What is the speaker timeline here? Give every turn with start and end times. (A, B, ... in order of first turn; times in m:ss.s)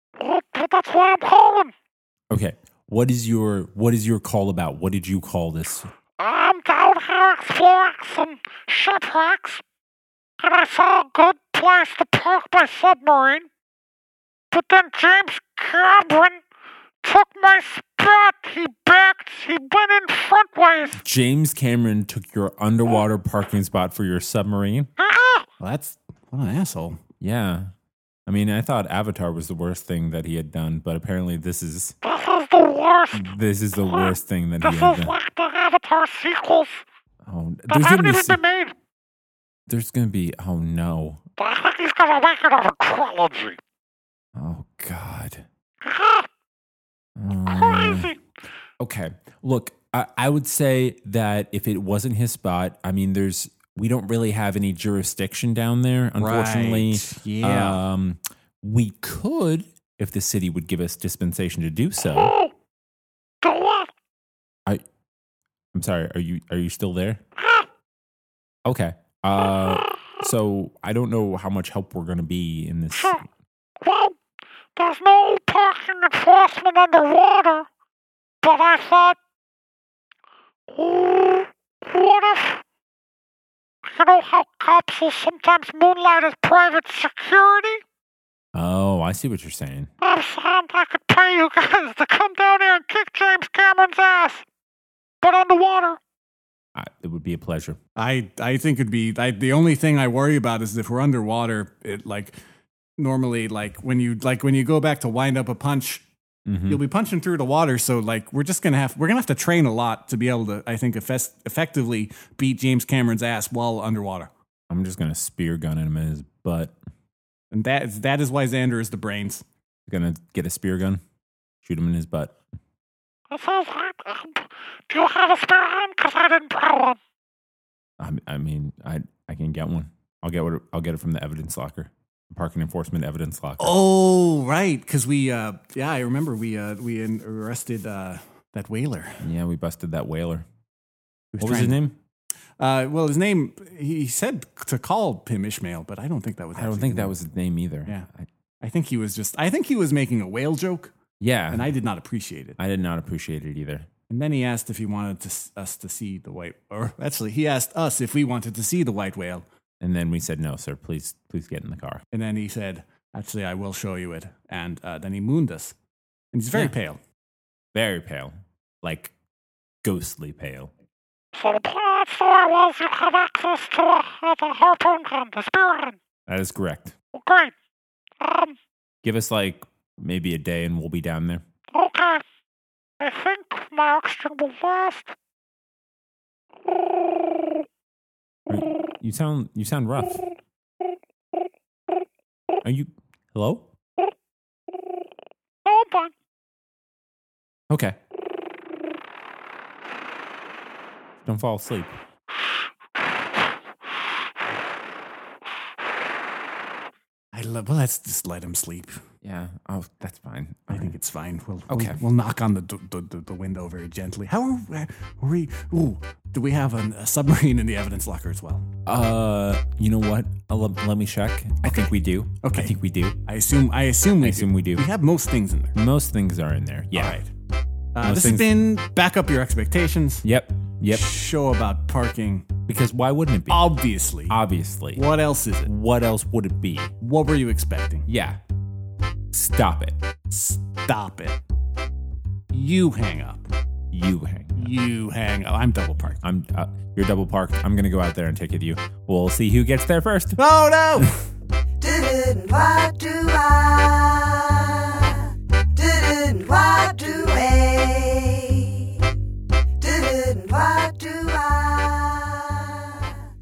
0:00.2-0:01.7 A
0:02.3-0:05.9 B
0:06.2-0:09.6 A
0:10.4-0:13.5 A
0:14.5-0:16.4 A
0:17.0-0:21.0 A
0:21.0-0:24.9 B
0:25.0-0:25.4 A
0:25.6-0:27.0 C
0:27.2-0:27.7 B
0:28.2-0:32.0 B
0:32.0-0:36.8 A
0:33.1-0:35.1 B
0:37.2-0:38.4 B
0:37.7-0:38.7 A
0:39.7-0:41.2 B
0:41.4-0:43.6 A
0:44.3-0:45.4 B
0:45.8-0:46.3 A
0:47.2-0:48.1 B
0:47.4-0:48.2 A
0:48.8-1:02.3 B
0:56.2-0:57.8 C
1:02.0-1:02.5 A
1:03.4-1:03.9 A
1:05.7-1:07.2 B
1:07.4-1:07.6 A
1:08.6-1:13.2 B
1:12.9-1:13.2 A
1:13.8-1:14.2 A
1:14.8-1:17.6 A
1:18.4-1:19.2 A
1:20.7-1:22.6 A
1:23.8-1:27.8 A
1:28.5-1:29.9 B
1:30.0-1:34.4 A
1:35.2-1:36.0 A
1:36.7-1:37.8 B
1:38.0-1:42.4 C
1:43.0-1:46.0 C
1:46.4-1:46.8 B
1:46.7-1:54.3 C
1:54.7-1:56.7 B
1:57.5-1:59.4 C
1:59.9-2:01.0 B
2:01.6-2:02.4 B
2:03.3-2:07.0 A
2:08.0-2:13.7 B
2:13.6-2:19.2 C
2:19.2-2:20.4 B
2:21.3-2:21.8 C
2:21.4-2:22.0 B
2:22.6-2:27.1 C
2:26.5-2:28.3 B
2:28.6-2:30.9 C
2:31.2-2:31.7 B
2:31.5-2:32.6 C
2:32.6-2:33.9 B
2:34.1-2:39.4 C
2:39.8-2:42.0 B
2:42.1-2:45.7 C
2:46.3-2:47.0 C
2:47.7-2:49.1 B
2:49.8-2:50.7 B
2:51.3-2:56.0 A
2:56.3-2:56.9 B
2:57.1-2:57.5 A
2:58.2-2:58.6 A
2:59.0-3:01.4 B
3:01.7-3:02.2 A
3:03.0-3:05.1 A
3:06.7-3:07.6 A
3:08.5-3:10.2 B
3:12.6-3:13.7 B
3:14.7-3:15.0 A
3:15.6-3:16.1 A
3:17.7-3:18.0 B
3:21.2-3:22.0 B
3:27.3-3:29.0 C
3:29.2-3:30.9 B
3:30.7-3:38.7 C
3:31.7-3:32.0 B
3:38.8-3:43.2 B
3:41.6-3:41.9 C
3:42.4-3:45.8 C
3:44.2-3:44.9 B
3:45.7-3:47.2 B
3:46.9-3:47.3 C
3:47.9-3:50.2 C
3:48.0-3:48.6 B
3:50.2-3:51.1 B
3:50.9-3:52.5 C
3:52.7-3:53.7 B
3:53.5-3:54.4 C
3:54.3-3:55.0 B
3:54.9-3:55.7 C
3:55.6-3:56.9 B
3:57.0-3:58.1 C
3:58.1-3:58.4 B
3:59.3-4:00.0 B
4:00.3-4:01.4 C
4:02.5-4:03.5 C
4:03.9-4:04.8 B
4:04.6-4:06.2 C
4:06.2-4:10.4 B
4:10.4-4:11.2 C
4:11.8-4:18.9 D
4:19.8-4:23.2 D